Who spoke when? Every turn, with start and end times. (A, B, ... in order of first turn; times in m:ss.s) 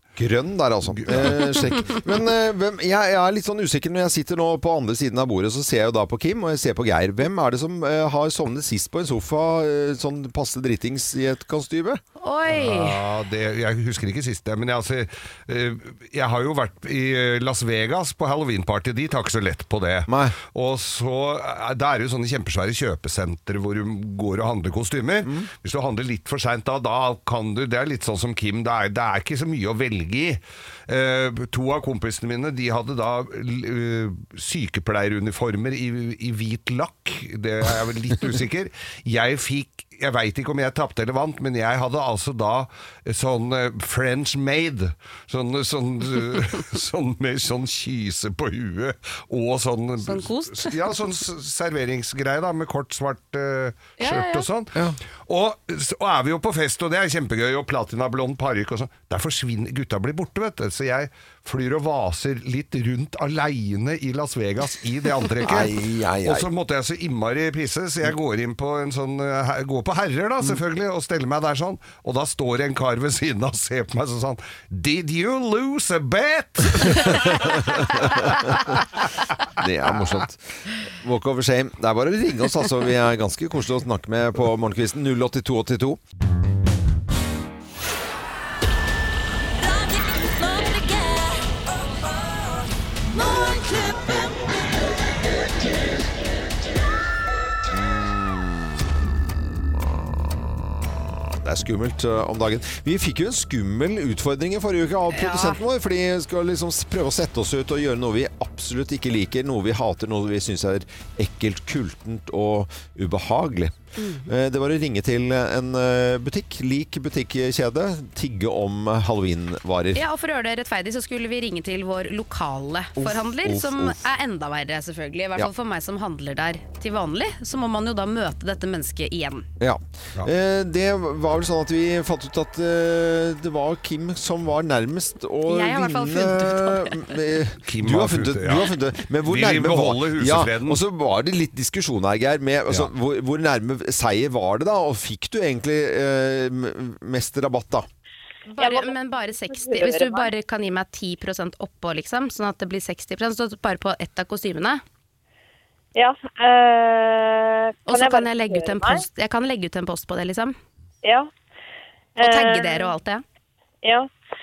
0:00.2-0:12.0 A
0:00.9-0:01.9 B
0:12.2-0:13.0 C
0:12.5-1:18.5 B
0:20.1-0:20.4 A
0:50.0-0:50.8 C
0:54.0-0:54.5 C
1:05.4-1:06.5 A
1:16.9-1:18.8 A
1:19.5-1:26.0 A
1:37.7-1:38.9 A
1:41.2-2:00.0 A
1:45.1-1:45.6 C
1:54.0-1:54.3 C
1:59.9-2:09.5 C
2:03.0-2:04.0 A
2:09.6-2:27.9 A
2:15.5-2:17.2 C
2:17.6-2:20.8 B
2:28.5-2:34.8 C
2:28.6-2:30.3 D
2:35.9-2:39.0 D
2:37.9-2:40.6 C
2:41.0-2:41.3 D
2:42.2-2:43.0 D
2:42.2-2:43.2 C
2:43.8-2:44.1 D